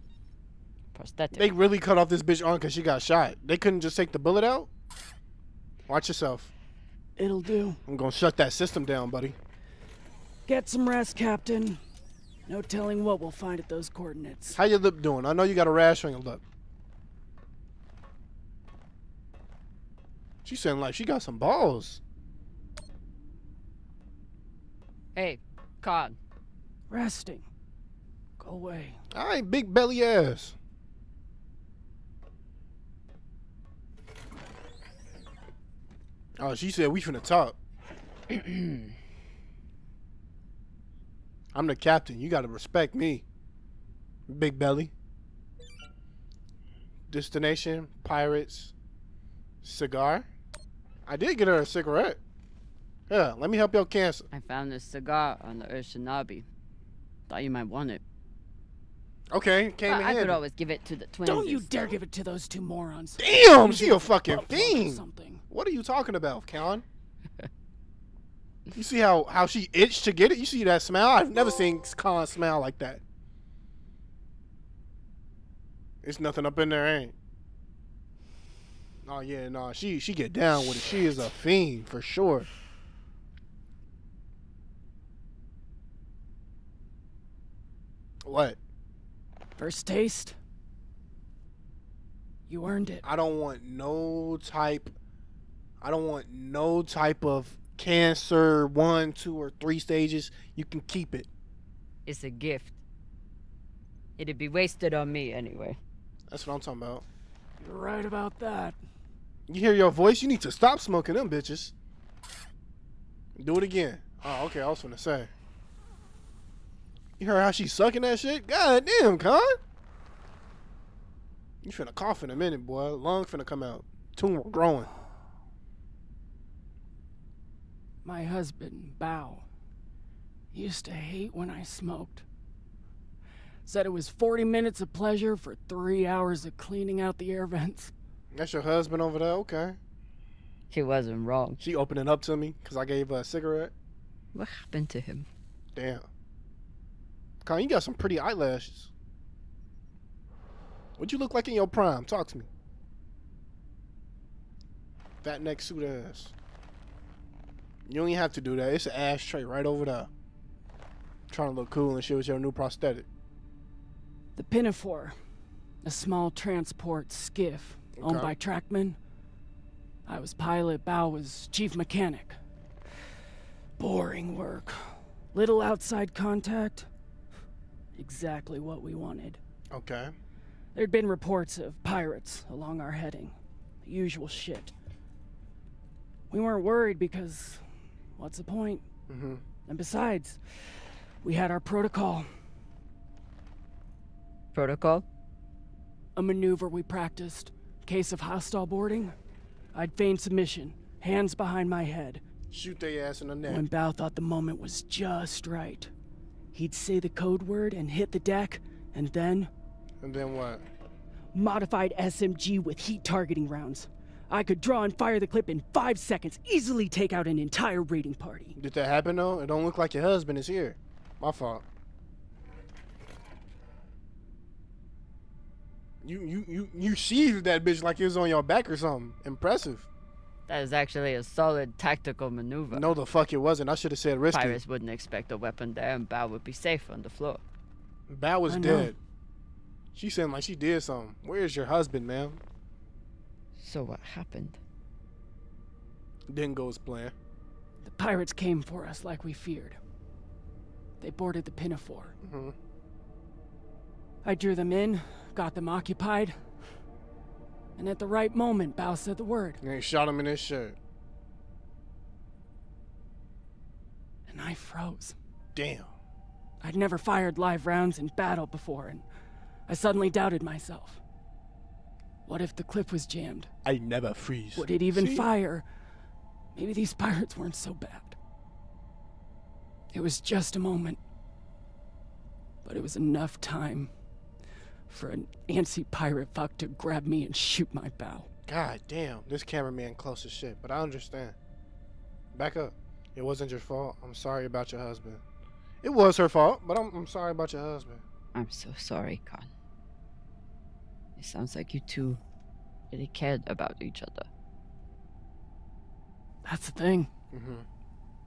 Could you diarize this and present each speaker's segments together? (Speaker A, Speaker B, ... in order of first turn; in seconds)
Speaker A: 0.9-1.5, 25.1-26.2, 54.3-56.4, 57.3-58.0, 59.9-62.0, 102.0-102.8, 104.2-105.8, 140.7-141.6, 144.3-145.3, 194.5-195.0, 230.5-232.9, 234.3-237.4, 243.6-244.6, 298.3-299.5, 301.2-302.2, 302.9-304.3
Speaker B: 1.3-4.7, 5.9-6.5, 7.9-9.4, 14.5-16.4, 20.4-22.0, 29.1-30.5, 36.4-37.5, 41.5-43.2, 44.3-44.9, 47.1-48.7, 49.6-50.3, 51.1-52.2, 53.1-54.2, 59.3-60.4, 63.2-66.8, 68.8-73.0, 76.0-77.1, 79.0-82.5, 88.2-88.6, 93.0-94.9, 95.8-101.3, 106.3-107.0, 109.5-111.7, 113.4-115.3, 117.2-119.6, 121.6-124.9, 138.3-139.8, 141.6-143.7, 145.7-146.1, 147.4-148.9, 151.0-152.5, 155.2-156.3, 157.9-160.1, 161.3-163.1, 168.0-168.3, 179.7-180.1, 189.1-189.4, 202.5-203.6, 210.0-210.6, 218.6-221.6, 226.0-229.9, 232.7-234.6, 238.1-239.0, 239.9-242.4, 246.3-247.1, 252.2-252.5, 259.6-260.8, 265.5-265.9, 273.6-275.3, 288.5-291.4, 292.3-295.2, 295.8-298.0, 307.3-307.6
Speaker C: 7.2-7.8, 10.5-11.8, 12.5-14.6, 26.9-27.4, 28.4-29.0, 61.2-65.4, 89.6-90.4, 92.5-93.0, 107.6-108.8, 128.0-129.4, 130.5-132.2, 133.7-137.9, 164.4-165.2, 165.8-169.0, 170.1-172.4, 173.8-176.9, 177.9-179.4, 180.7-184.7, 186.3-188.8, 189.7-192.3, 196.2-199.1, 199.7-202.2, 203.4-205.9, 206.5-209.5, 211.3-218.6, 238.5-238.9, 247.8-249.8, 251.0-252.1, 254.2-256.4, 257.8-259.6, 264.3-265.1, 266.6-269.0, 269.7-271.0, 272.2-273.5, 274.5-275.6, 276.5-278.1, 279.9-281.0, 282.6-283.9, 284.9-288.3, 306.4-307.1